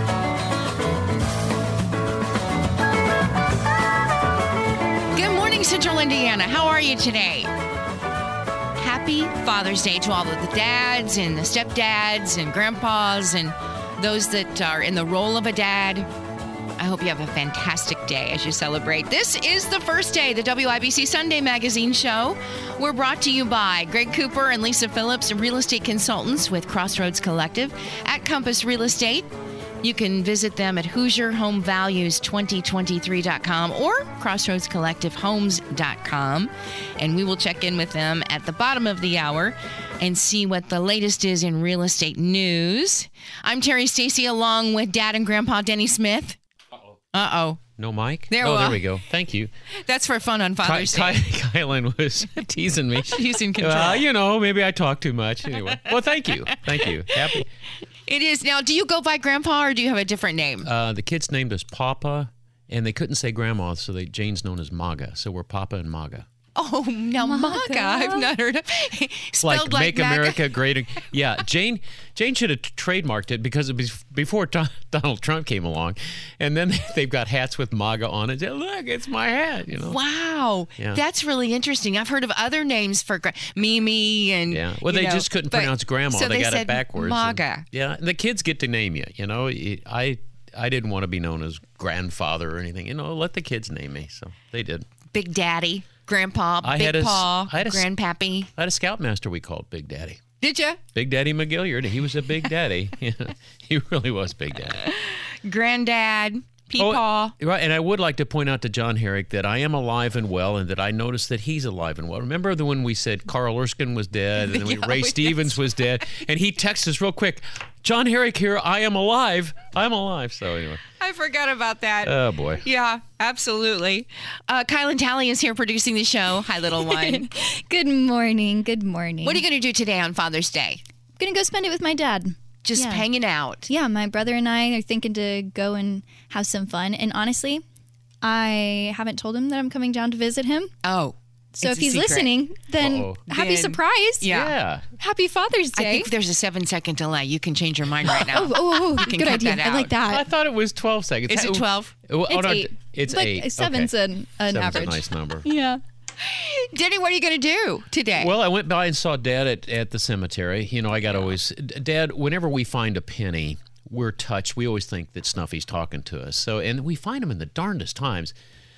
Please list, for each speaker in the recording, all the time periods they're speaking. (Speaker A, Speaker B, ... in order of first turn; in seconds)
Speaker A: 5.1-7.5, 8.8-16.1, 16.8-29.3, 29.8-46.4, 47.1-47.6, 48.3-48.8, 49.8-51.2, 53.1-54.0, 56.5-57.4, 58.1-60.7, 66.6-70.5, 79.8-87.7, 95.1-98.5, 100.4-100.8, 105.3-107.3, 114.4-115.6, 121.0-127.3, 129.2-130.8, 132.6-133.7, 140.8-142.3, 143.3-144.5, 145.8-149.9, 151.3-151.9, 156.2-158.3
Speaker B: 47.8-49.5, 50.6-57.5, 60.6-66.3, 69.4-80.0, 84.5-94.9, 96.6-97.9, 98.6-100.2, 101.0-104.9, 106.8-120.8, 122.0-122.6, 142.8-143.2, 144.3-144.8, 150.0-153.9, 154.5-155.5, 158.2-168.3
Speaker C: 67.2-68.3, 126.8-129.4, 131.2-133.1, 133.7-137.6, 138.2-140.7, 141.6-144.3, 145.0-146.1, 148.1-150.2, 152.3-155.8